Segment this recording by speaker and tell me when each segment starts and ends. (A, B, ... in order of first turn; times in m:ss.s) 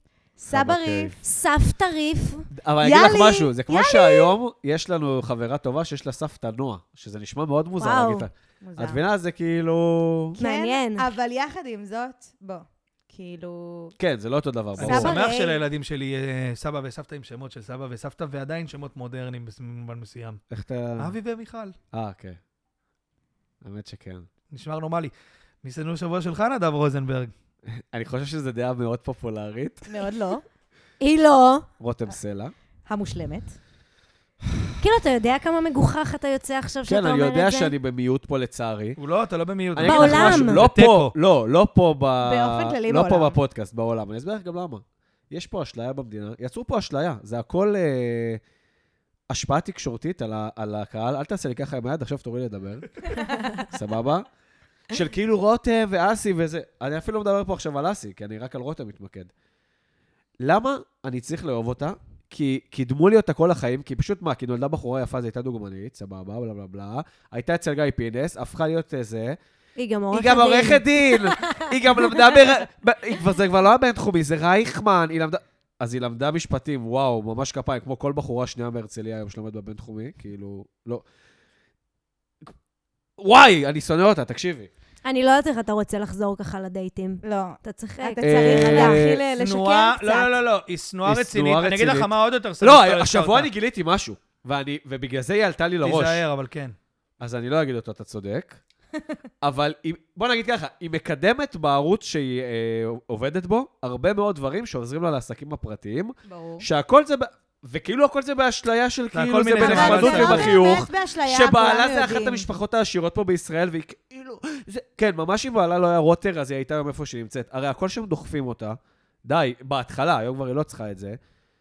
0:00.4-0:01.2 A
0:00.5-0:01.2 B
0:01.2-0:02.5 C
0:02.5-0:10.4 B
0:02.8-0:04.4 A
0:07.8-0:08.3 C
0:08.6-0:09.0 A
0:10.4-0:13.9 A
0:10.4-0:11.1 C
0:14.0-0:15.1 B
0:14.8-0:15.6 A
0:14.8-0:20.4 D
0:20.5-0:21.1 B
0:21.0-0:21.7 D
0:21.9-0:22.4 B
0:23.6-0:24.3 B
0:24.5-0:25.1 D
0:25.6-0:27.3 D
0:27.7-0:29.9 B
0:29.9-0:30.4 A
0:31.0-0:31.7 C
0:31.8-0:32.5 B
0:32.9-0:33.6 A
0:34.8-0:37.7 C
0:36.9-0:39.0 B
0:39.0-0:41.1 D
0:39.7-0:48.4 B
0:39.8-0:40.6 C
0:42.2-0:43.4 A
0:49.3-0:54.3 B
0:53.2-0:53.5 A
0:54.9-0:59.3 B
1:00.4-1:09.4 B
1:09.8-1:12.4 C
1:10.1-1:21.0 B
1:23.2-1:24.7 B
1:25.0-1:29.0 C
1:27.2-1:30.3 A
1:28.2-1:29.2 B
1:29.4-1:33.5 D
1:31.1-1:32.1 B
1:32.6-1:36.2 B
1:35.8-1:36.7 D
1:37.2-1:38.6 B
1:39.4-2:01.2 B
1:46.3-1:46.6 A
1:49.1-1:50.6 D
1:49.6-1:52.5 A